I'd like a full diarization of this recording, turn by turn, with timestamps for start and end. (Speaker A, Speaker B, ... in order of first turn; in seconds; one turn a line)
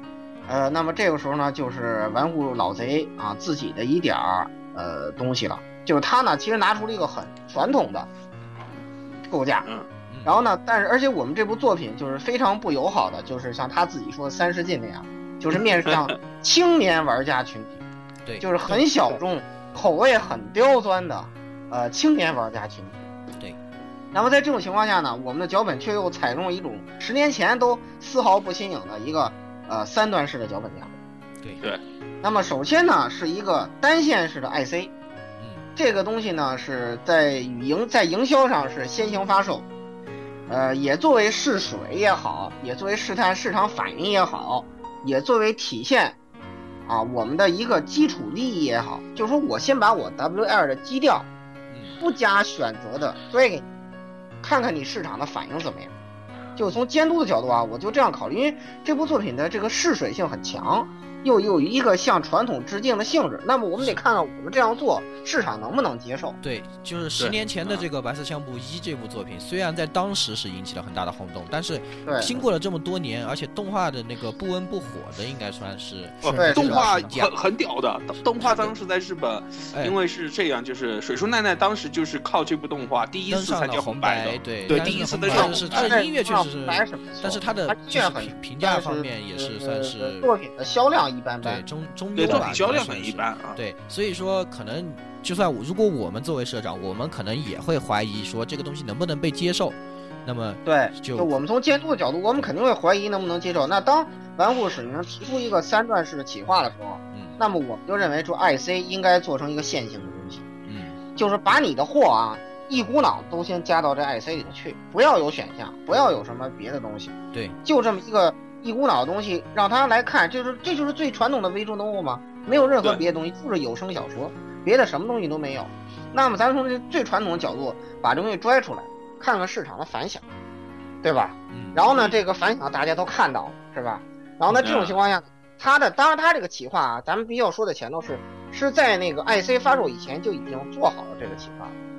Speaker A: 0.5-8.1
Speaker A: 9.3-9.7
Speaker B: 10.1-10.4
Speaker A: 10.2-17.8
Speaker B: 18.2-18.5
Speaker A: 18.4-23.0
Speaker A: 24.1-31.0
Speaker B: 31.4-31.6
Speaker A: 32.2-34.9
Speaker B: 35.4-35.7
Speaker A: 35.8-39.6
Speaker A: 40.5-46.2
Speaker A: 46.9-51.3
Speaker B: 51.7-52.0
Speaker A: 52.0-53.6
Speaker A: 54.4-55.9
Speaker A: 56.5-66.4
Speaker B: 66.4-77.3
Speaker C: 67.2-67.8
Speaker A: 72.0-72.4
Speaker C: 76.2-86.0
Speaker A: 76.3-77.0
Speaker B: 78.4-78.7
Speaker B: 83.3-90.3
Speaker A: 85.3-91.6
Speaker B: 91.4-101.3
Speaker C: 92.2-93.6
Speaker A: 100.7-110.4
Speaker B: 107.1-107.4
Speaker B: 110.7-111.0
Speaker A: 111.2-130.2
Speaker A: 131.0-141.7
Speaker B: 131.5-131.8
Speaker C: 131.9-132.2
Speaker C: 134.5-135.0